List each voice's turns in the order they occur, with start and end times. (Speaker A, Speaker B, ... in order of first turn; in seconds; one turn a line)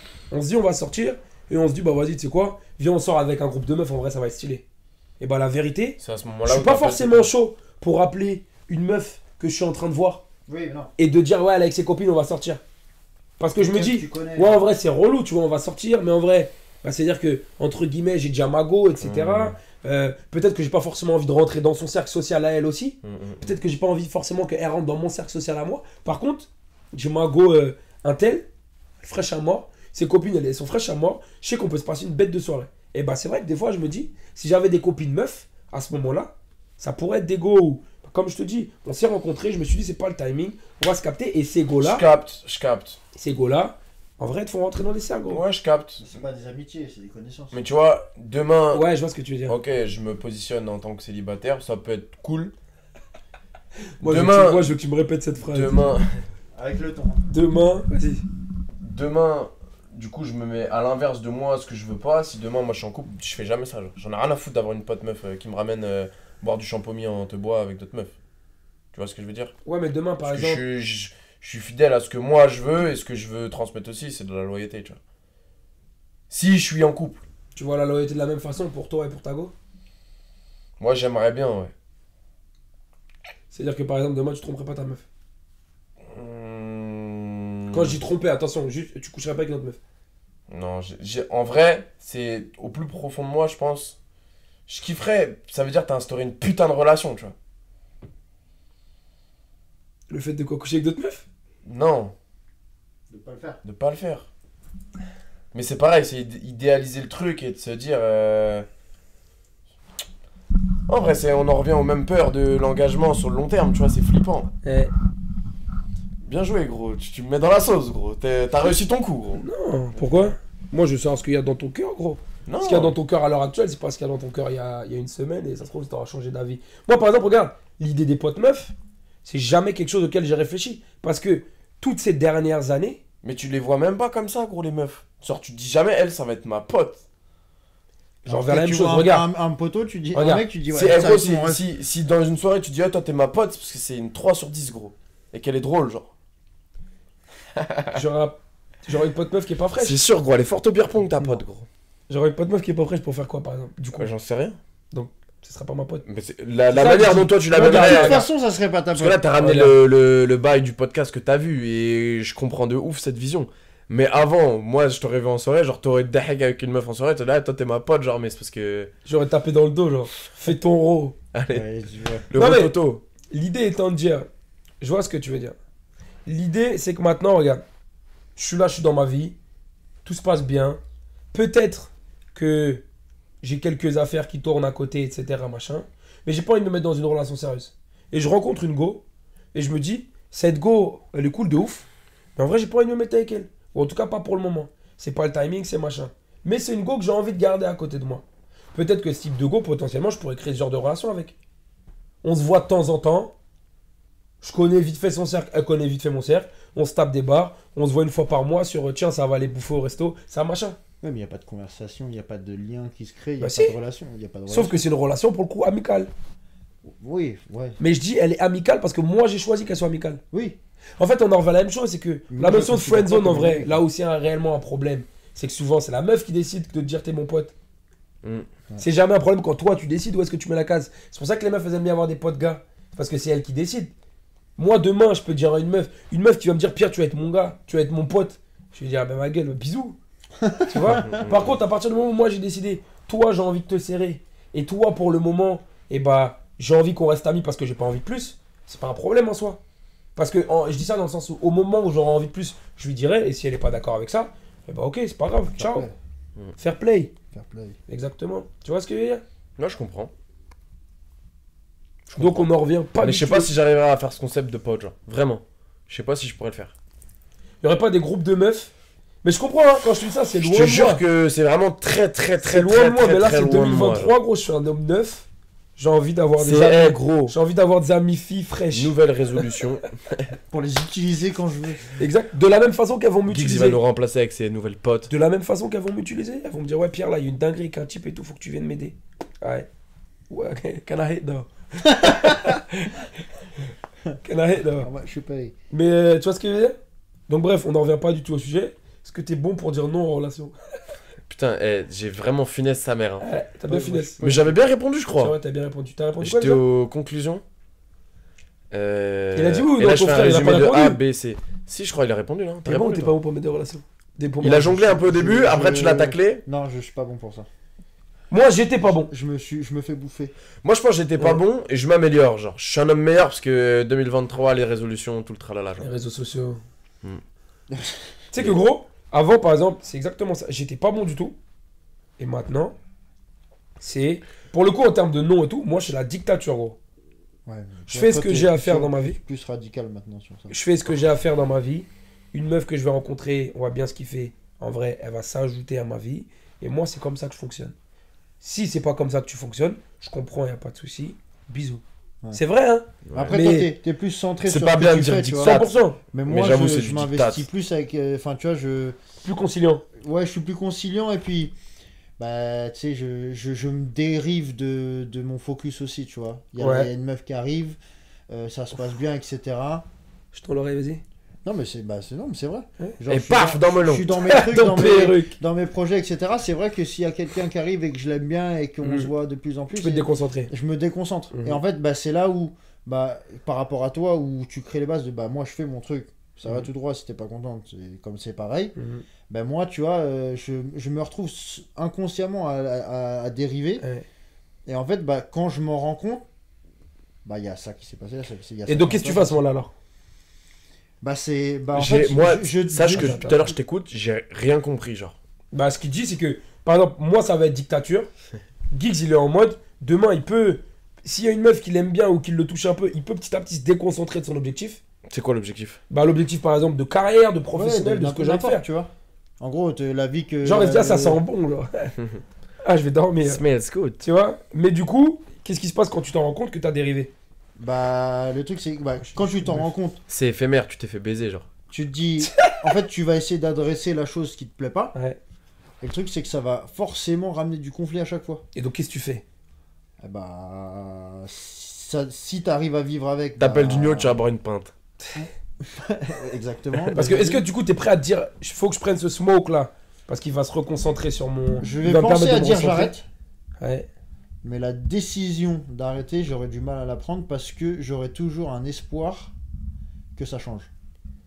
Speaker A: 0.3-4.6
Speaker A: 5.2-10.2
Speaker B: 6.0-7.3
Speaker C: 10.5-10.9
Speaker A: 11.0-12.6
Speaker A: 13.4-28.4
Speaker C: 13.6-14.6
Speaker B: 19.0-19.6
Speaker B: 23.0-23.5
Speaker A: 29.0-42.0
Speaker B: 41.8-43.0
Speaker A: 43.1-45.4
Speaker B: 45.3-46.0
Speaker C: 46.0-47.6
Speaker B: 47.5-48.8
Speaker A: 48.7-49.6
Speaker B: 49.5-52.5
Speaker A: 54.0-55.9
Speaker B: 54.0-54.7
Speaker B: 55.5-56.2
Speaker C: 56.5-57.2
Speaker A: 57.3-58.2
Speaker B: 58.8-68.1
Speaker B: 68.9-69.5
Speaker A: 69.6-70.6
Speaker B: 70.2-75.0
Speaker B: 76.3-77.2
Speaker A: 77.5-79.5
Speaker B: 80.8-81.7
Speaker A: 83.5-85.0
Speaker B: 86.1-88.0
Speaker A: 87.7-89.8
Speaker B: 90.5-94.0
Speaker B: 94.7-97.3
Speaker A: 100.1-101.2
Speaker B: 101.6-102.1
Speaker C: 103.1-103.6
Speaker B: 103.6-104.3
Speaker B: 105.5-108.7
Speaker B: 110.9-114.5
Speaker A: 114.6-114.9
Speaker B: 116.2-119.4
Speaker A: 119.4-133.0
Speaker B: 120.0-120.3
Speaker B: 122.5-122.9
Speaker B: 133.2-137.0
Speaker A: 138.2-139.3
Speaker C: 138.2-141.7
Speaker A: 140.1-140.4
Speaker B: 140.7-146.1
Speaker B: 147.6-148.0
Speaker A: 147.9-150.0
Speaker B: 149.8-151.7
Speaker A: 152.1-154.1
Speaker B: 154.0-154.6
Speaker A: 154.9-156.0
Speaker B: 156.0-158.2
Speaker A: 156.7-158.2
Speaker C: 157.5-159.2
Speaker B: 158.9-168.9
Speaker A: 159.4-159.8
Speaker A: 169.0-171.2
Speaker B: 171.3-171.7
Speaker C: 171.5-172.2
Speaker B: 172.3-173.0
Speaker A: 172.3-172.7
Speaker A: 173.3-174.3
Speaker A: 174.8-175.6
Speaker A: 176.2-177.6
Speaker A: 178.3-179.3
Speaker A: 180.0-180.8
Speaker A: 181.3-182.8
Speaker A: 183.4-201.3
Speaker A: 202.2-203.3
Speaker A: 204.4-210.8
Speaker C: 211.0-214.8
Speaker A: 213.4-213.8
Speaker A: 214.5-216.1
Speaker C: 216.8-217.8
Speaker A: 217.8-220.2
Speaker C: 220.3-220.6
Speaker A: 221.0-227.5
Speaker C: 222.3-223.8
Speaker A: 228.8-233.9
Speaker A: 234.6-240.0
Speaker C: 240.4-241.2
Speaker A: 240.7-249.6
Speaker B: 240.8-241.5
Speaker A: 250.2-255.9
Speaker C: 255.5-255.9
Speaker A: 256.6-257.1
Speaker C: 257.3-257.8
Speaker A: 257.9-259.2
Speaker B: 259.6-260.1
Speaker B: 262.1-262.5
Speaker A: 262.1-263.5
Speaker B: 263.0-266.7
Speaker A: 267.6-268.7
Speaker A: 269.2-271.0
Speaker B: 270.4-274.1
Speaker A: 272.4-278.9
Speaker B: 276.4-277.3
Speaker B: 278.7-280.3
Speaker C: 280.5-281.9
Speaker A: 282.0-283.8
Speaker B: 283.3-285.1
Speaker A: 285.1-289.7
Speaker A: 290.3-293.1
Speaker C: 292.0-292.4
Speaker A: 294.2-294.9
Speaker C: 294.8-295.5
Speaker A: 295.7-296.8
Speaker A: 297.3-300.6
Speaker B: 301.3-303.3
Speaker A: 303.2-304.2
Speaker C: 303.7-304.6
Speaker B: 304.2-305.4
Speaker A: 305.2-306.6
Speaker B: 306.2-307.4
Speaker B: 308.7-313.1
Speaker A: 309.3-311.0
Speaker A: 312.6-315.0
Speaker B: 314.4-316.4
Speaker C: 314.8-317.5
Speaker A: 318.3-319.1
Speaker C: 318.8-320.3
Speaker B: 320.6-325.9
Speaker A: 325.8-326.6
Speaker C: 327.7-328.0
Speaker A: 328.3-331.4
Speaker A: 332.2-332.7
Speaker A: 333.8-336.8
Speaker C: 337.4-340.5
Speaker A: 337.9-339.2
Speaker A: 340.5-347.7
Speaker A: 348.4-351.8
Speaker A: 352.3-353.7
Speaker B: 353.1-353.4
Speaker C: 353.1-355.6
Speaker B: 354.4-357.4
Speaker A: 355.4-356.0
Speaker C: 356.1-359.0
Speaker A: 359.2-359.8
Speaker C: 360.0-361.5
Speaker C: 362.2-367.8
Speaker A: 366.6-366.9
Speaker C: 368.3-369.9
Speaker A: 370.3-371.0
Speaker C: 371.4-388.7
Speaker B: 373.1-374.2
Speaker A: 374.2-375.4
Speaker A: 378.8-379.1
Speaker A: 379.7-380.5
Speaker A: 381.3-381.6
Speaker A: 388.8-389.0
Speaker C: 389.3-393.8
Speaker A: 393.8-394.1
Speaker C: 394.7-396.3
Speaker C: 397.2-399.4
Speaker A: 398.7-399.7
Speaker C: 401.0-403.5
Speaker B: 401.7-405.1
Speaker A: 402.9-403.4
Speaker A: 405.5-408.1
Speaker A: 408.7-414.8
Speaker B: 415.1-415.8
Speaker A: 415.9-418.6
Speaker C: 417.5-421.2
Speaker A: 420.4-421.9
Speaker A: 422.6-423.4
Speaker B: 423.2-424.0
Speaker A: 424.0-427.1
Speaker C: 427.6-430.0
Speaker A: 429.4-429.7
Speaker B: 430.1-431.4
Speaker C: 431.7-434.9
Speaker A: 432.2-432.6
Speaker C: 435.8-438.4
Speaker A: 438.5-439.2
Speaker C: 440.0-444.2
Speaker B: 443.4-444.7
Speaker C: 445.1-447.4
Speaker A: 446.9-452.9
Speaker C: 451.6-453.1
Speaker A: 453.6-453.9
Speaker C: 454.4-459.3
Speaker C: 460.1-460.7